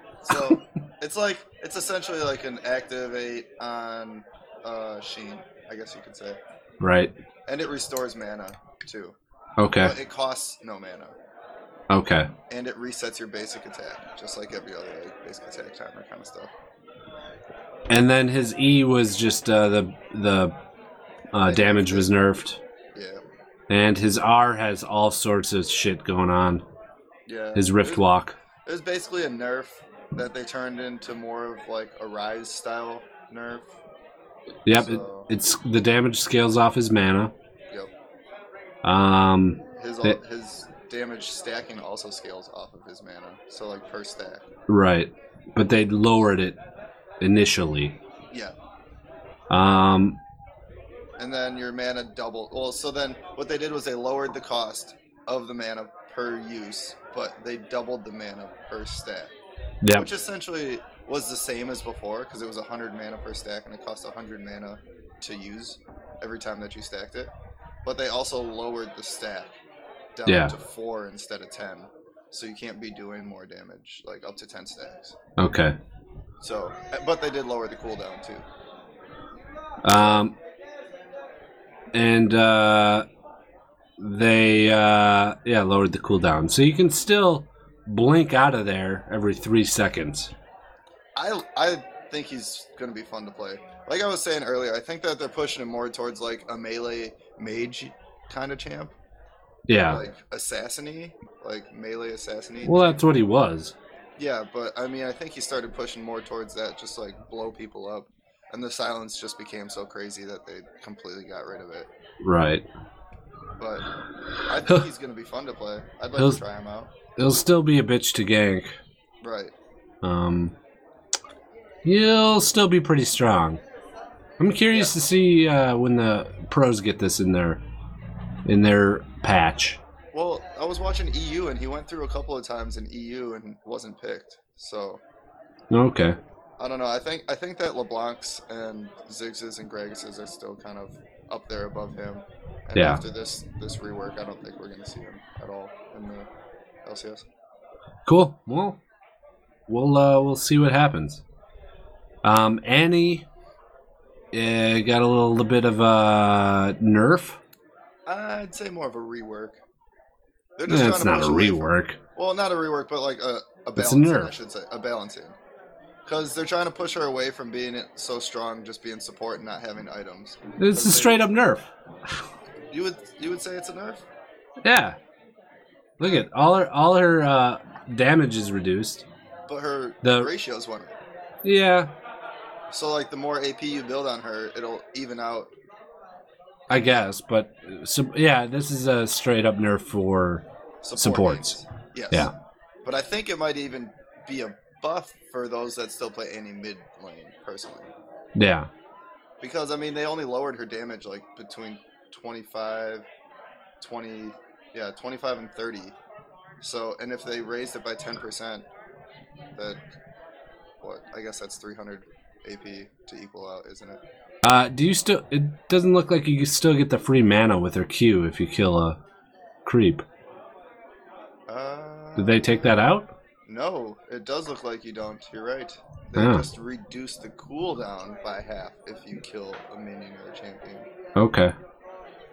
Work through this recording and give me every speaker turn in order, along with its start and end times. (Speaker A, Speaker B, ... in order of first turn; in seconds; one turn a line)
Speaker A: 0.2-6.4
Speaker B: 6.8-7.1
Speaker A: 7.5-9.1
Speaker B: 9.6-9.9
Speaker A: 9.8-11.1
Speaker B: 11.9-12.3
Speaker A: 12.5-16.5
Speaker B: 17.9-20.5
Speaker B: 21.3-22.6
Speaker A: 21.4-22.1
Speaker A: 22.9-23.2
Speaker B: 23.7-26.6
Speaker A: 27.3-28.0
Speaker B: 27.5-28.4
Speaker A: 28.6-33.7
Speaker B: 34.6-37.3
Speaker A: 34.7-35.3
Speaker B: 38.8-40.2
Speaker A: 39.8-44.4
Speaker B: 44.7-46.6
Speaker B: 47.2-48.0
Speaker B: 49.5-50.2
Speaker A: 51.2-59.3
Speaker B: 59.8-60.1
Speaker A: 59.9-67.3
Speaker A: 67.8-69.5
Speaker A: 70.1-75.1
Speaker B: 70.2-70.5
Speaker B: 75.4-75.8
Speaker A: 76.4-78.4
Speaker B: 79.8-80.3
Speaker A: 79.9-80.3
Speaker B: 81.9-83.0
Speaker B: 84.0-90.3
Speaker A: 91.2-98.9
Speaker B: 99.7-100.0
Speaker A: 99.8-103.0
Speaker B: 102.6-103.7
Speaker A: 104.2-111.9
Speaker B: 112.2-112.6
Speaker A: 113.6-113.8
Speaker A: 114.5-116.9
Speaker B: 117.2-118.8
Speaker A: 119.2-119.5
Speaker B: 120.0-120.5
Speaker B: 121.8-123.6
Speaker B: 124.4-127.6
Speaker B: 128.4-129.8
Speaker A: 130.1-135.0
Speaker B: 135.7-136.2
Speaker A: 136.6-146.3
Speaker B: 142.8-143.0
Speaker A: 146.8-147.2
Speaker B: 148.1-148.8
Speaker B: 149.7-151.2
Speaker B: 152.2-153.2
Speaker B: 154.3-157.4
Speaker A: 158.1-159.6
Speaker A: 160.6-165.3
Speaker B: 160.7-162.0
Speaker B: 163.8-164.3
Speaker A: 166.1-171.2
Speaker B: 170.6-171.7
Speaker A: 172.7-174.0
Speaker B: 174.6-174.9
Speaker B: 176.0-179.0
Speaker A: 179.5-180.9
Speaker B: 180.0-180.3
Speaker B: 181.4-181.9
Speaker A: 182.7-185.5
Speaker B: 186.7-190.4
Speaker A: 190.8-192.3
Speaker B: 190.9-191.6
Speaker A: 192.8-197.9
Speaker B: 198.3-198.7
Speaker A: 199.4-203.0
Speaker A: 203.8-205.9
Speaker A: 206.6-208.7
Speaker A: 210.8-214.0
Speaker B: 214.4-219.0
Speaker B: 219.6-220.0
Speaker A: 221.5-222.8
Speaker B: 222.2-223.1
Speaker A: 223.5-230.9
Speaker B: 226.2-226.4
Speaker B: 231.2-231.5